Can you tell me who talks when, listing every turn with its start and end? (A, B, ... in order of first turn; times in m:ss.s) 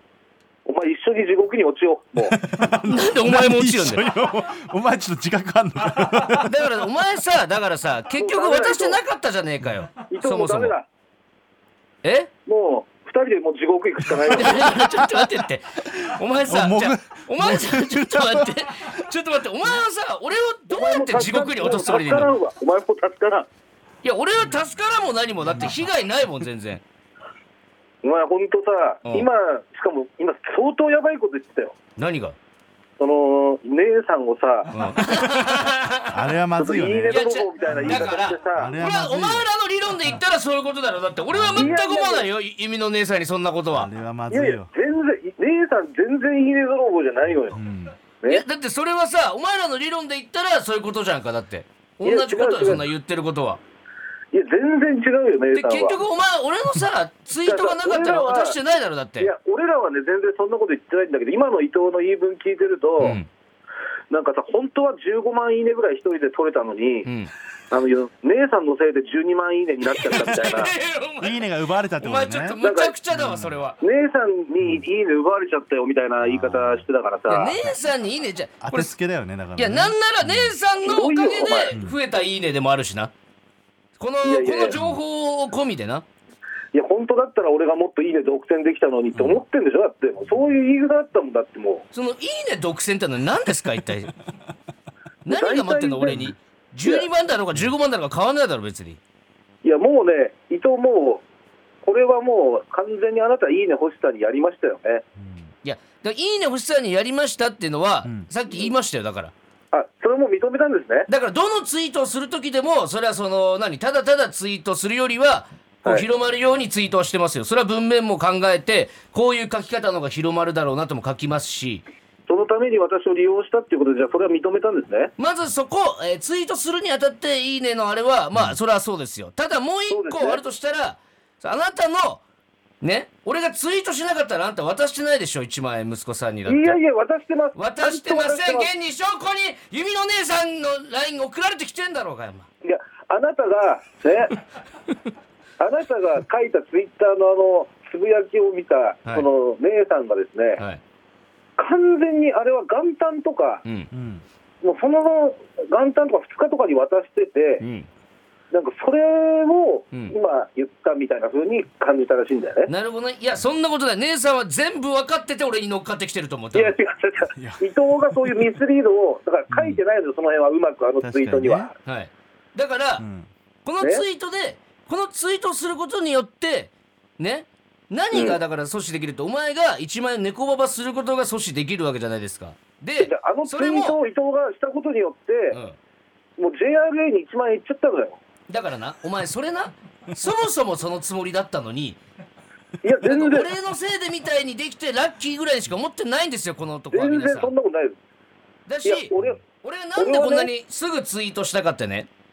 0:00.6-0:02.4 A
0:02.2-0:06.6 B
0:02.8-0:04.0 C
0:06.4-0:10.7 C
0:08.2-0:09.0 A
0:10.1-0:10.9 A
0:12.0-0:12.3 C
0:12.4-0:14.6 A
0:14.3-0:22.3 C
0:14.6-0:15.3 B
0:16.5-0:18.9 B
0:20.7-0:23.5 A
0:24.0-0:26.8 C
0:28.0-0:31.8 A
0:32.0-0:32.4 C
0:33.0-0:34.7 A
0:34.7-0:36.3 C
0:36.1-0:39.5 B
0:36.6-0:38.7 A
0:37.1-0:43.9 C
0:41.3-0:41.8 B
0:41.6-0:42.2 A
0:43.7-0:44.7 B
0:44.3-0:47.6 A
0:47.5-0:48.0 B
0:48.2-0:53.6 C
0:52.0-0:52.9 A
0:54.3-0:56.0 A
0:55.5-0:59.3 C
0:57.4-0:58.6 A
0:59.2-1:03.2 A
1:03.0-1:03.3 C
1:04.1-1:07.1 A
1:07.0-1:07.3 C
1:07.7-1:10.7 A
1:09.9-1:11.4 C
1:11.2-1:12.6 B
1:12.0-1:13.8 C
1:12.6-1:12.9 A
1:13.1-1:13.6 B
1:13.8-1:17.5 A
1:16.2-1:16.8 B
1:17.3-1:18.9 C
1:18.6-1:20.5 B
1:19.6-1:23.1 C
1:20.8-1:21.7 A
1:24.0-1:26.0 C
1:24.2-1:24.8 A
1:26.7-1:31.8 A
1:29.1-1:29.4 B
1:31.9-1:34.1 C
1:35.2-1:39.0 C
1:35.3-1:37.1 A
1:39.6-1:41.2 A
1:41.8-1:45.0 A
1:45.2-1:45.5 B
1:45.6-1:49.3 C
1:49.7-1:51.1 A
1:51.1-2:01.8 C
2:02.3-2:05.1 A
2:05.2-2:12.2 C
2:09.9-2:10.4 A
2:12.8-2:16.8 C
2:16.4-2:18.7 A
2:17.5-2:22.5 C
2:22.6-2:24.4 A
2:25.6-2:30.6 A
2:30.6-2:30.8 C
2:31.6-2:33.6 A
2:33.6-2:33.9 C
2:33.9-2:34.2 B
2:34.6-2:37.6 A
2:37.6-2:37.9 C
2:38.5-2:42.7 A
2:42.7-2:46.8 C
2:46.5-2:51.7 A
2:49.5-2:49.8 B
2:51.0-2:51.7 B
2:51.8-2:53.0 C
2:53.0-2:53.3 B
2:53.6-3:04.0 C
2:58.1-2:58.4 A
3:03.0-3:05.6 A
3:06.4-3:08.2 A
3:08.5-3:12.0 C
3:12.8-3:13.5 A
3:13.0-3:17.5 C
3:16.9-3:18.0 A
3:18.7-3:22.1 C
3:18.8-3:19.4 A
3:20.0-3:20.5 A